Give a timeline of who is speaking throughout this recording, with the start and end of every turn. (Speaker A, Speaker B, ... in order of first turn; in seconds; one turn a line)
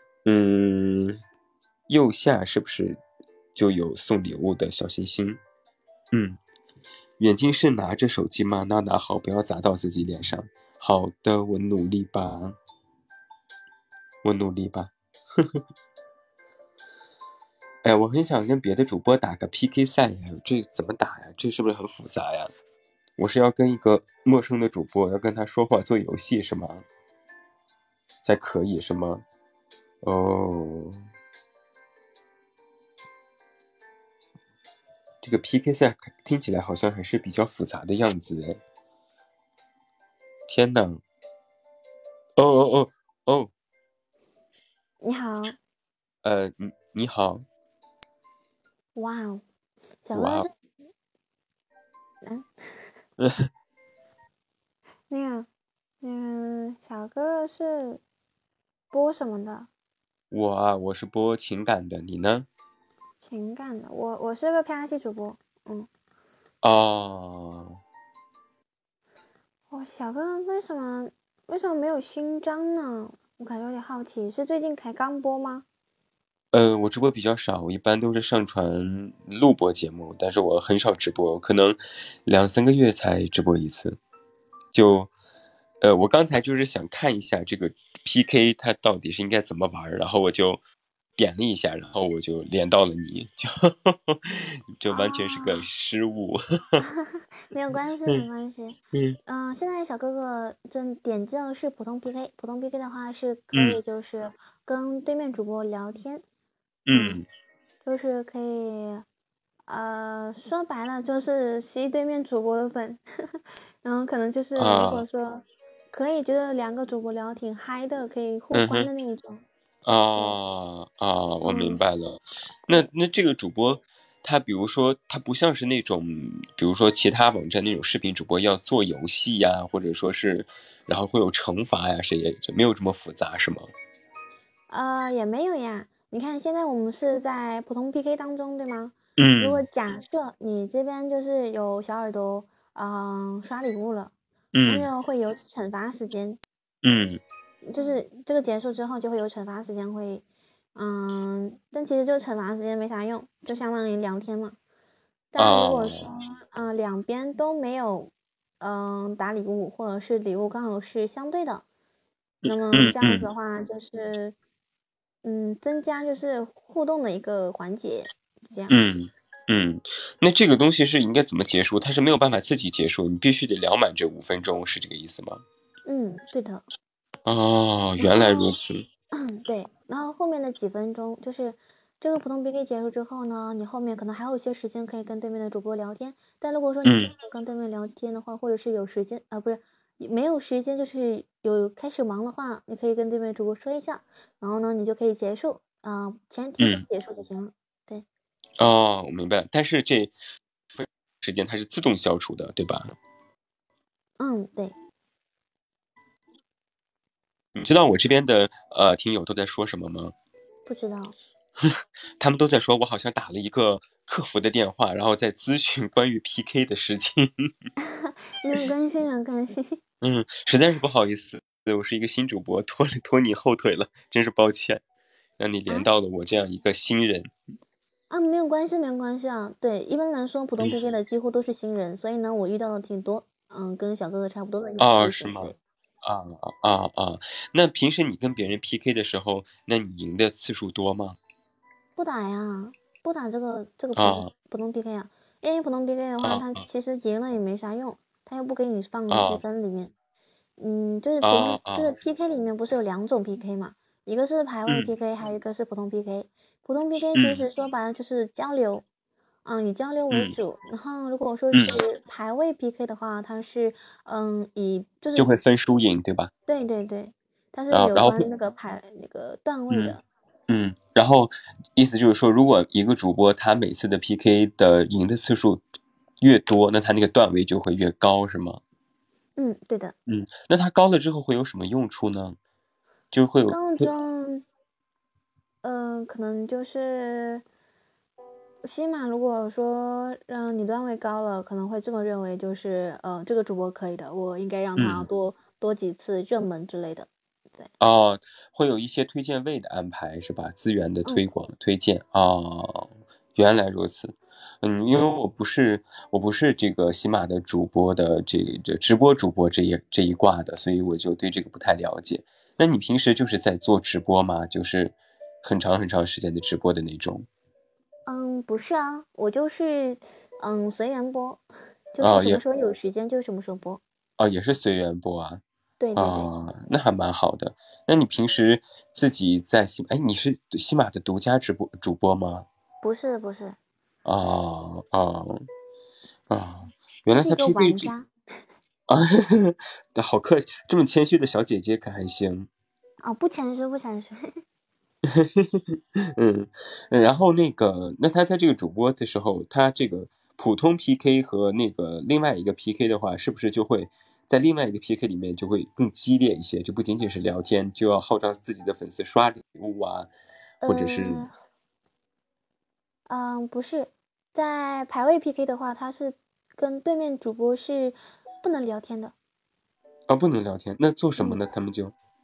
Speaker A: 0.2-1.2
Speaker A: 1.9-3.0
Speaker A: 3.5-5.4
Speaker A: 6.1-6.4
Speaker A: 7.2-12.6
Speaker A: 14.2-15.6
Speaker A: 17.8-22.5
Speaker A: 23.2-26.9
Speaker A: 28.2-29.2
Speaker A: 30.0-31.0
Speaker A: 35.2-38.6
Speaker A: 40.5-41.0
Speaker A: 42.4-43.5
Speaker B: 45.0-45.5
Speaker A: 46.2-47.4
Speaker B: 49.0-49.4
Speaker B: 50.0-50.5
Speaker A: 50.1-50.5
Speaker B: 52.2-52.8
Speaker A: 53.2-53.5
Speaker B: 55.1-55.5
Speaker B: 56.0-58.0
Speaker B: 58.9-59.7
Speaker A: 60.3-62.5
Speaker B: 63.2-65.9
Speaker A: 66.6-67.8
Speaker B: 69.7-75.6
Speaker A: 76.5-84.0
Speaker A: 84.7-85.1
Speaker A: 85.8-90.6
Speaker A: 91.2-96.8
Speaker B: 94.9-95.6
Speaker B: 96.8-106.2
Speaker A: 103.5-103.8
Speaker A: 106.8-107.3
Speaker B: 106.9-107.2
Speaker B: 107.8-109.0
Speaker B: 109.7-119.4
Speaker A: 114.5-115.0
Speaker A: 118.5-118.9
Speaker A: 119.8-133.7
Speaker B: 121.4-121.8
Speaker B: 134.7-144.1
Speaker A: 139.2-139.6
Speaker A: 144.5-144.9
Speaker B: 144.7-146.4
Speaker A: 146.8-147.2
Speaker B: 147.6-150.2
Speaker B: 150.8-154.6
Speaker B: 155.3-161.6
Speaker A: 155.4-156.1
Speaker A: 162.4-163.3
Speaker B: 162.4-164.3
Speaker B: 165.2-168.8
Speaker A: 168.7-175.4
Speaker B: 175.8-176.6
Speaker A: 177.2-178.8
Speaker B: 178.0-178.5
Speaker B: 179.1-198.0
Speaker A: 186.8-187.1
Speaker A: 196.6-196.8
Speaker A: 198.6-200.1
Speaker A: 200.7-202.9
Speaker B: 204.2-204.7
Speaker A: 207.5-210.1
Speaker B: 210.7-211.1
Speaker A: 211.6-217.5
Speaker B: 217.9-219.8
Speaker A: 220.0-224.8
Speaker A: 225.4-227.3
Speaker B: 228.1-235.6
Speaker A: 234.8-241.2
Speaker B: 242.0-249.9
Speaker A: 243.9-244.3
Speaker A: 246.2-246.6
Speaker A: 249.1-249.4
Speaker B: 250.6-258.8
Speaker A: 251.2-251.9
Speaker A: 254.7-254.9
Speaker A: 257.1-257.4
Speaker B: 259.4-265.3
Speaker A: 260.1-260.4
Speaker A: 261.5-261.8
Speaker A: 265.1-266.3
Speaker B: 266.5-270.0
Speaker A: 267.7-268.2
Speaker A: 269.7-270.0
Speaker A: 270.5-275.6
Speaker A: 276.2-278.6
Speaker B: 279.4-279.9
Speaker A: 280.1-282.4
Speaker A: 283.1-283.9
Speaker B: 283.5-284.4
Speaker B: 285.6-287.4
Speaker B: 288.6-297.7
Speaker A: 294.8-295.1
Speaker A: 297.8-317.3
Speaker B: 318.1-323.8
Speaker A: 322.0-322.4
Speaker A: 324.2-325.4
Speaker B: 325.8-326.3
Speaker A: 325.9-332.5
Speaker B: 332.8-333.6
Speaker A: 334.0-335.4
Speaker A: 336.3-337.9
Speaker B: 337.1-338.1
Speaker A: 338.9-342.5
Speaker B: 343.0-344.4
Speaker A: 345.1-360.1
Speaker B: 360.6-361.3
Speaker A: 360.6-361.3
Speaker B: 363.1-369.1
Speaker A: 370.1-371.9